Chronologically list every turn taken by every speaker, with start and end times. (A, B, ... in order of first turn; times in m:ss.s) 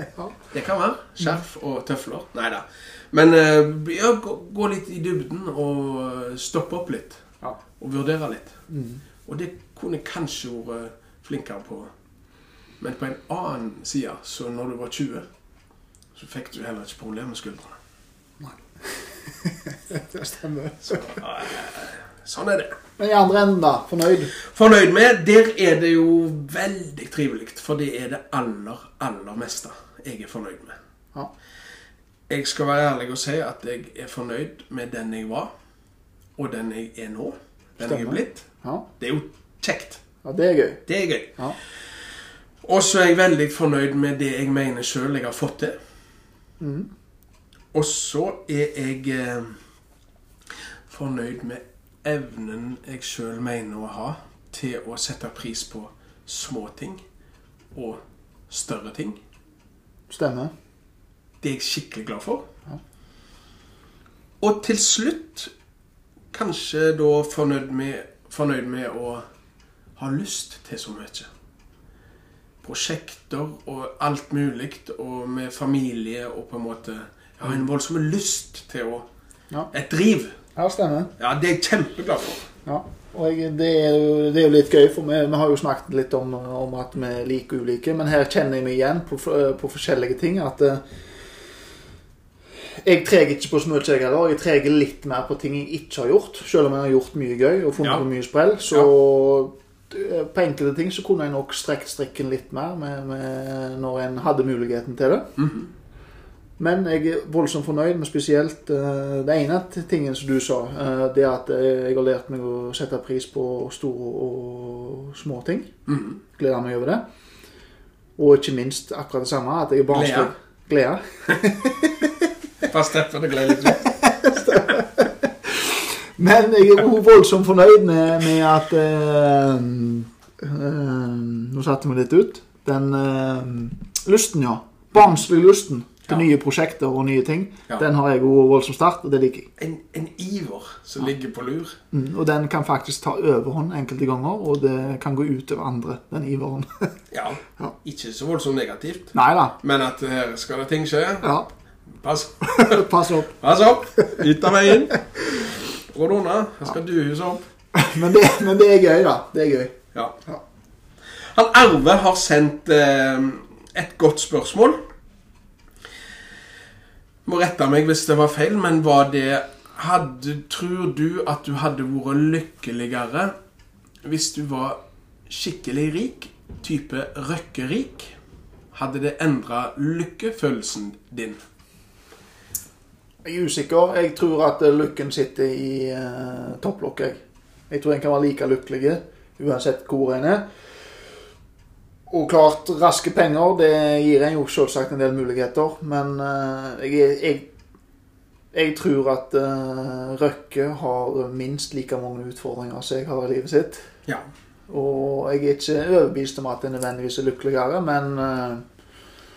0:00.5-0:07.2 A
0:07.8-0:08.6 A
0:08.7-0:09.0 B
0:09.2-0:11.9 A
0:12.8-0:15.3 A
0:16.2-0:17.8 A
0:18.4-0:21.2 B
0:20.9-0:22.8 A
0:23.0-0:24.3 B
0:24.4-0:30.8 A
0:32.3-0:35.5 A
0:36.4-0:38.5 A
0:37.8-0:38.9 B
0:39.0-0:40.0 A
0:40.2-0:40.8 B
0:40.9-0:41.4 A
0:42.6-0:45.8 A
0:46.6-0:46.9 B
0:47.7-0:49.6 A
0:50.9-0:57.0 A
0:57.7-0:59.2 A
1:00.1-1:00.5 B
1:01.4-1:02.5 A
1:04.4-1:05.5 A
1:06.3-1:09.2 A
1:10.0-1:11.3 A
1:12.6-1:19.1 A
1:19.7-1:20.3 A
1:20.6-1:21.1 B
1:21.2-1:22.4 A
1:22.7-1:30.8 B
1:32.8-1:45.4 B
1:45.4-1:45.7 A
1:46.6-1:55.7 B
1:55.9-1:56.2 A
1:56.4-1:57.0 B
1:58.2-2:02.3 B
1:59.9-2:00.3 A
2:02.6-2:03.9 A
2:03.6-2:19.5 B
2:19.6-2:21.8 A
2:21.9-2:26.9 B
2:27.1-2:31.3 A
2:29.1-2:29.6 B
2:31.2-2:31.5 B
2:32.0-2:35.0 A
2:32.4-2:33.3 B
2:35.8-2:37.4 A
2:37.8-2:40.4 B
2:41.3-2:44.8 A
2:47.2-2:53.4 A
2:54.0-2:58.2 A
2:58.7-3:01.4 A
3:03.2-3:07.2 B
3:07.7-3:10.4 B
3:12.1-3:17.5 B
3:18.5-3:23.9 B
3:24.7-3:28.6 B